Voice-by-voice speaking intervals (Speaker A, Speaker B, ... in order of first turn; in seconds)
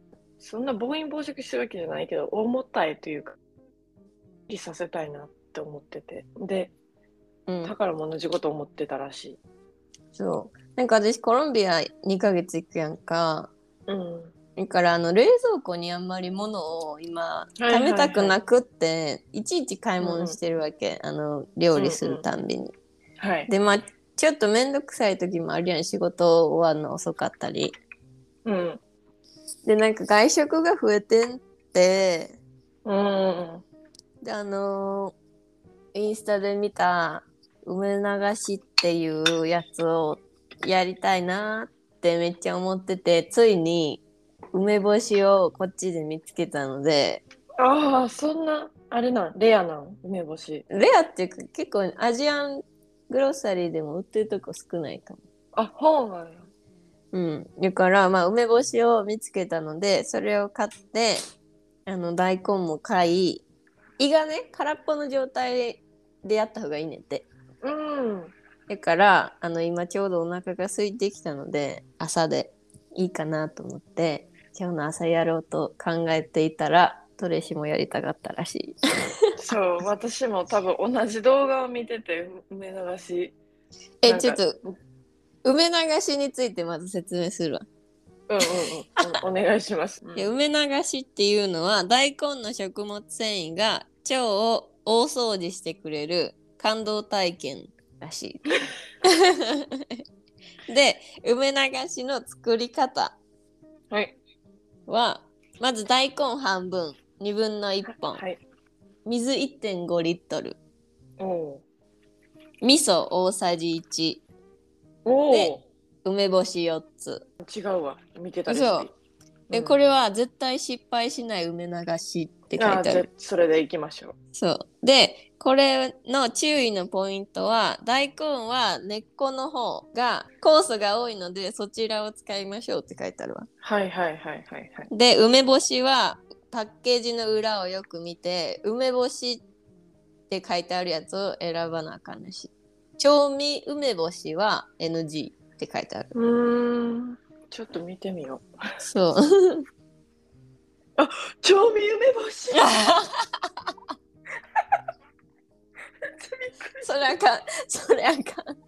Speaker A: 0.4-3.4, 4.5-6.7, 7.6-9.4, 13.9-14.3, 17.6-18.4, 20.0-20.4, 21.7-22.2, 23.2-23.5, 28.4-28.8, 32.8-33.6, 47.6-50.6, 55.5-56.5, 67.6-68.3, 79.4-83.3, 84.0-84.7, 88.3-90.3, 103.9-104.2, 107.9-108.4, 111.2-111.6, 115.0-115.6, 117.4-118.9, 119.5-119.8, 122.6-124.1, 133.6-134.9, 146.1-148.4, 151.0-152.7, 156.1-157.1
Speaker B: 7.5-7.7, 10.1-13.5, 14.6-22.7, 23.5-27.8, 29.6-32.4, 34.2-35.1, 35.9-47.2, 50.7-55.2, 57.1-61.2, 61.9-63.4, 64.0-67.2, 68.7-78.8, 84.0-84.6, 85.4-87.6, 90.2-98.4, 99.0-100.0, 100.7-103.2, 104.9-108.2, 109.0-110.6, 112.6-114.2, 115.3-117.2, 118.5-118.9, 119.5-123.1, 124.3-133.5, 134.9-139.4, 140.3-146.1, 148.8-149.6, 152.6-153.1, 156.8-158.4